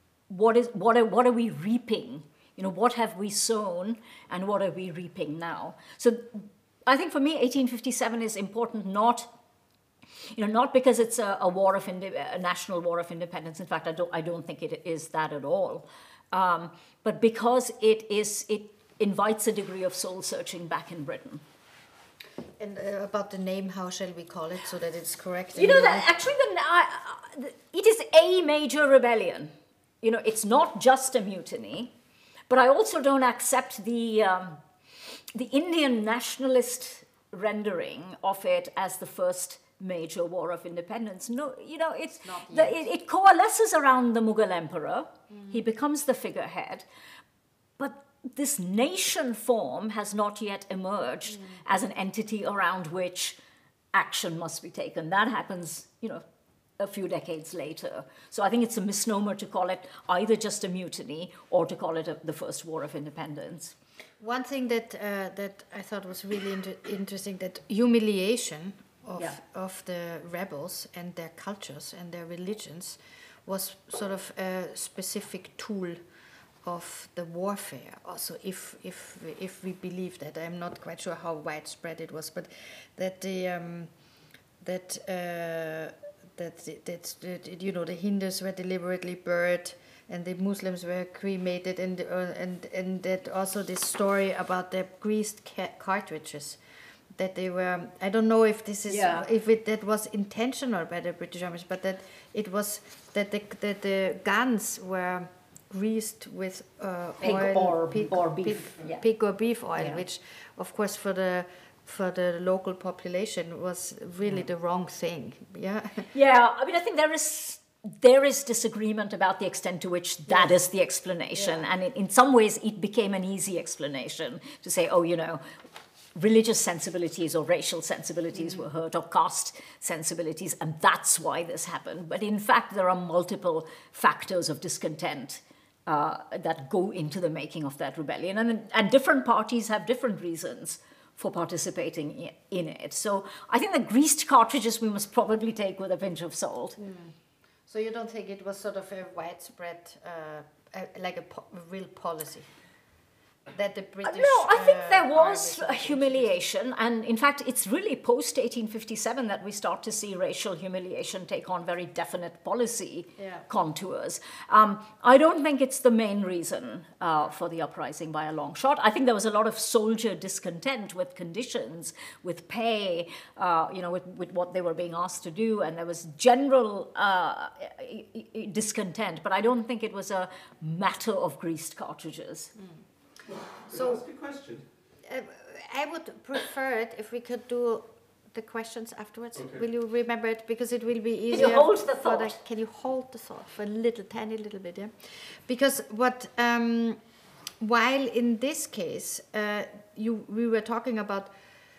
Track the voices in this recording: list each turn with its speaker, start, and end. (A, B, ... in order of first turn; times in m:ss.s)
0:00.3-0:09.3 A
0:10.3-0:21.4 A
0:22.6-0:26.1 B
0:25.5-0:31.9 A
0:32.5-0:34.6 A
0:35.3-0:46.8 A
0:42.2-0:42.8 B
0:45.3-0:45.6 B
0:47.8-0:53.4 A
0:53.9-0:56.2 A
0:56.8-1:03.7 A
1:04.2-1:16.0 B
1:16.6-1:23.9 B
1:24.6-1:36.6 B
1:37.1-1:56.1 B
1:38.9-1:39.3 A
1:47.2-1:49.0 A
1:56.1-2:05.4 A
2:00.3-2:00.6 B
2:06.1-2:26.8 A
2:26.8-2:27.1 B
2:27.7-2:32.5 B
2:33.5-2:36.4 B
2:34.0-3:02.5 A
2:43.2-2:43.4 B
3:03.6-3:17.0 B
3:11.3-3:12.4 A
3:17.6-3:21.3 B